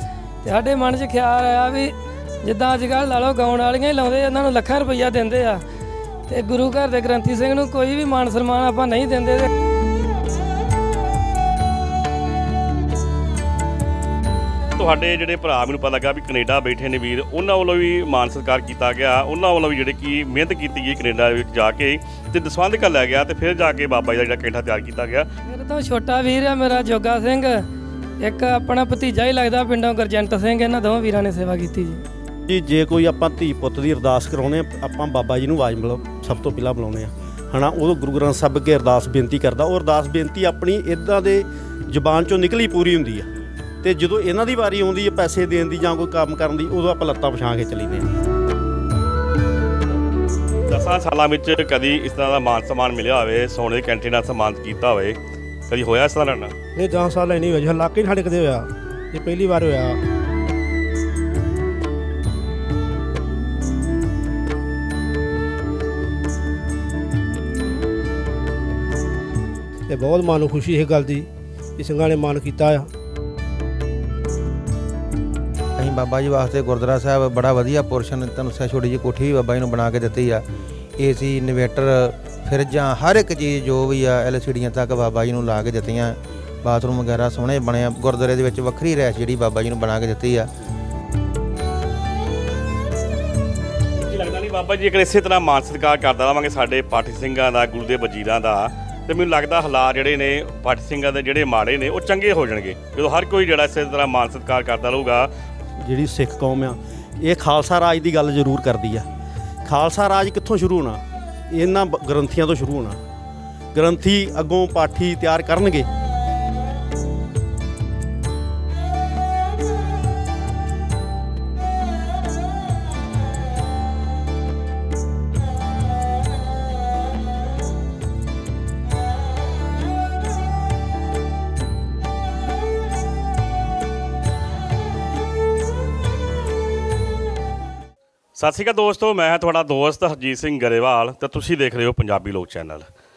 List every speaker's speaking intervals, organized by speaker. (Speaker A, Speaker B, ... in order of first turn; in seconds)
Speaker A: 0.4-5.6, 6.3-9.5, 25.5-27.6, 28.2-32.0
Speaker B: 14.8-25.3, 50.7-56.5, 93.9-105.3, 138.4-142.9
Speaker C: 32.5-43.3, 43.8-48.1, 105.8-109.1, 109.6-113.0, 113.7-115.9
Speaker D: 56.8-60.0, 69.9-71.3, 71.8-72.9
Speaker E: 75.8-80.5, 81.0-90.5